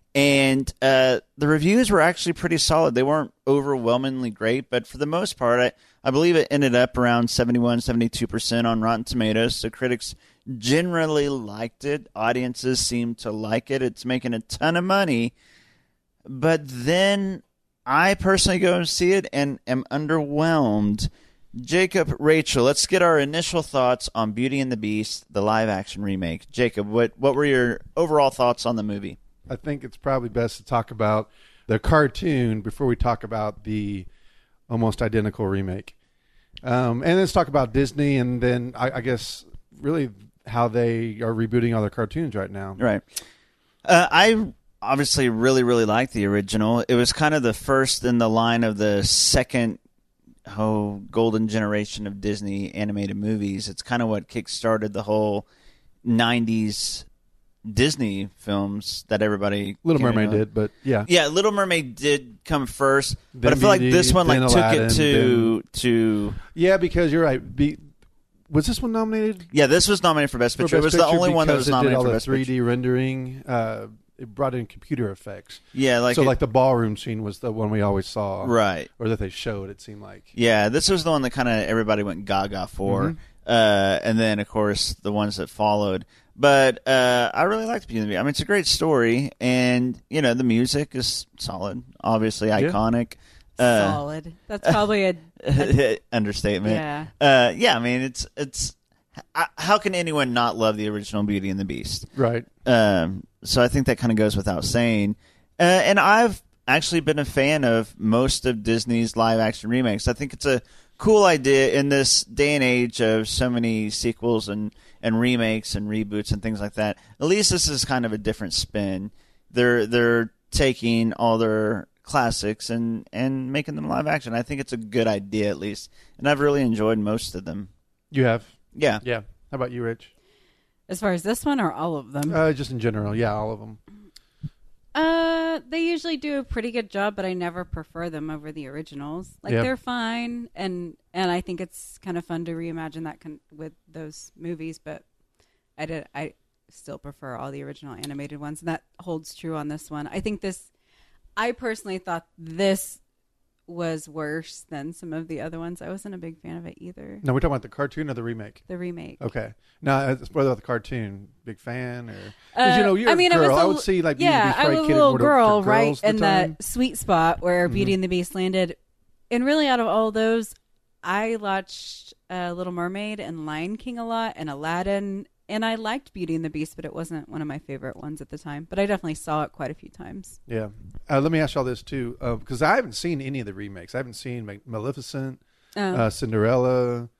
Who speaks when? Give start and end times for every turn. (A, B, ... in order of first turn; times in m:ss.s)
0:00.1-0:15.3 A
0:16.2-0:29.2 A
0:29.5-0:34.1 B
0:34.7-0:35.9 B
0:36.6-0:42.8 B
0:42.8-0:43.0 A
0:43.8-0:49.8 A
0:50.5-0:55.4 A
0:56.0-0:57.0 A
0:57.6-1:00.4 A
0:59.8-1:01.1 B
1:01.0-1:06.4 A
1:03.3-1:05.5 B
1:06.5-1:07.8 B
1:08.5-1:09.5 B
1:09.5-1:12.5 A
1:10.6-1:20.3 B
1:15.7-1:16.3 A
1:18.4-1:18.9 A
1:20.3-1:34.0 A
1:22.8-1:23.2 B
1:33.6-1:35.8 C
1:35.4-1:38.7 A
1:36.6-1:37.1 C
1:39.3-1:42.1 A
1:42.1-1:42.5 B
1:42.6-2:07.7 A
2:08.1-2:10.1 B
2:08.7-2:09.0 A
2:10.9-2:12.4 C
2:12.3-2:13.8 B
2:14.9-2:25.0 C
2:25.8-2:30.7 C
2:31.4-2:33.0 C
2:33.7-2:37.2 C
2:37.2-2:38.6 B
2:38.7-2:39.2 C
2:39.2-2:46.6 B
2:42.5-2:48.8 C
2:47.6-2:48.0 B
2:49.3-3:00.4 C
3:00.5-3:07.1 B
3:05.8-3:06.0 C